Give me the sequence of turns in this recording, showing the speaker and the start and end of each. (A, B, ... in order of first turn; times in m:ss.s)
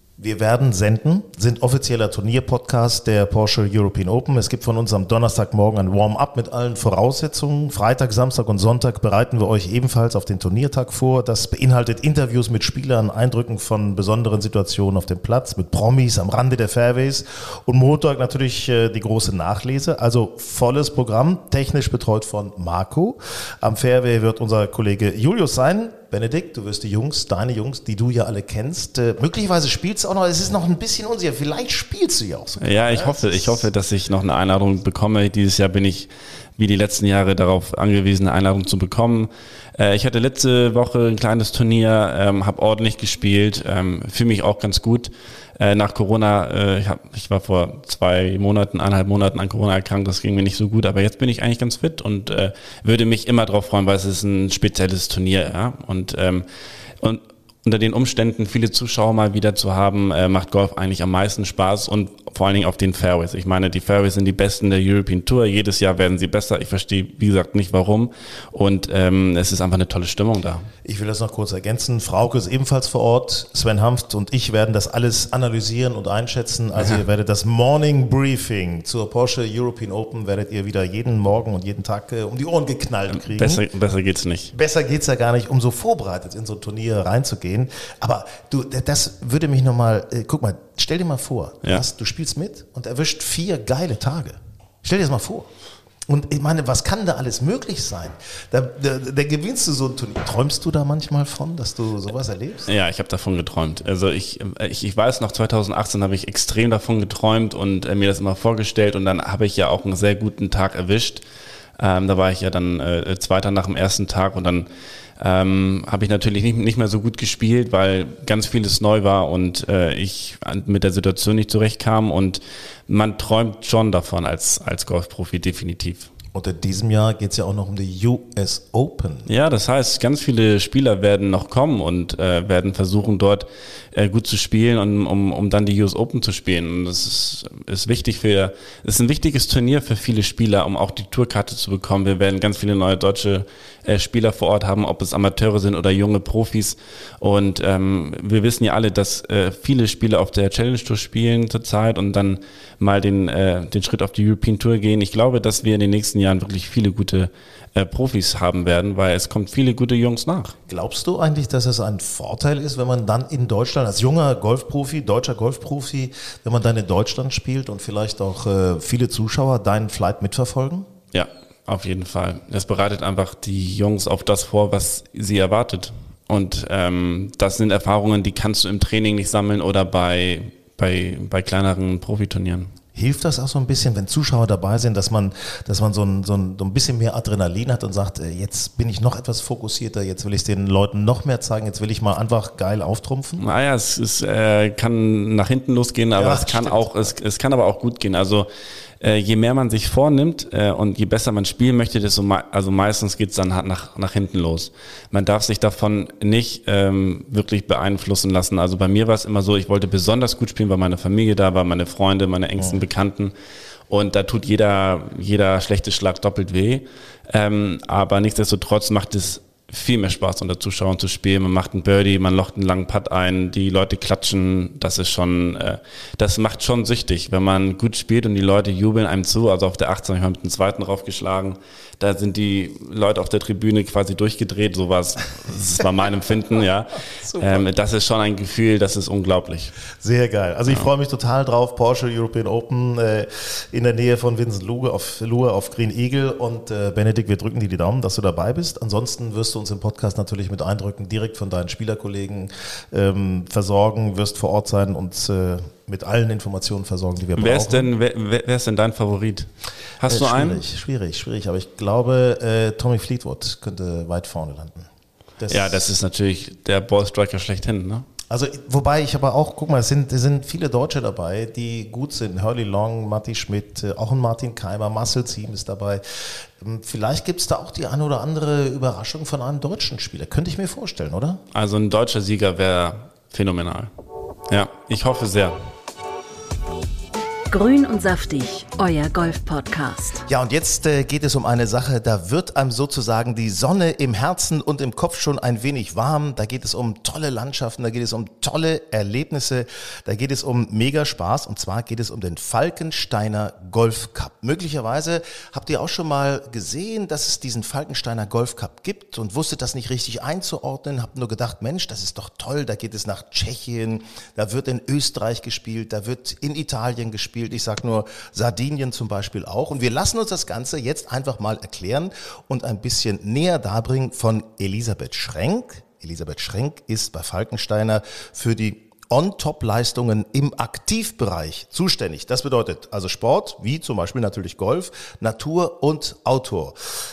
0:00.2-0:33.7 A
0:32.6-0:56.4 B
0:57.0-1:10.7 B
1:10.8-1:23.6 A
1:23.1-1:24.5 B
1:24.5-1:35.5 A
1:36.1-1:42.7 A
1:42.7-1:51.2 B
1:51.8-1:54.7 B
1:55.2-2:06.1 B
2:06.3-2:09.3 A
2:09.3-2:40.6 B
2:40.7-2:50.9 A
2:51.1-3:02.7 B
3:02.9-3:13.4 A
3:13.4-3:18.5 B
3:16.2-3:17.1 A
3:19.0-3:33.3 B
3:33.9-3:59.8 B
3:57.2-3:57.6 A
4:00.0-4:17.9 A
4:17.4-4:19.5 B
4:20.0-4:20.6 B
4:20.0-4:25.9 A
4:25.5-4:28.0 B
4:28.3-4:41.4 A
4:41.5-4:43.9 B
4:44.5-4:45.6 B
4:47.5-4:50.2 C
4:50.3-5:36.8 A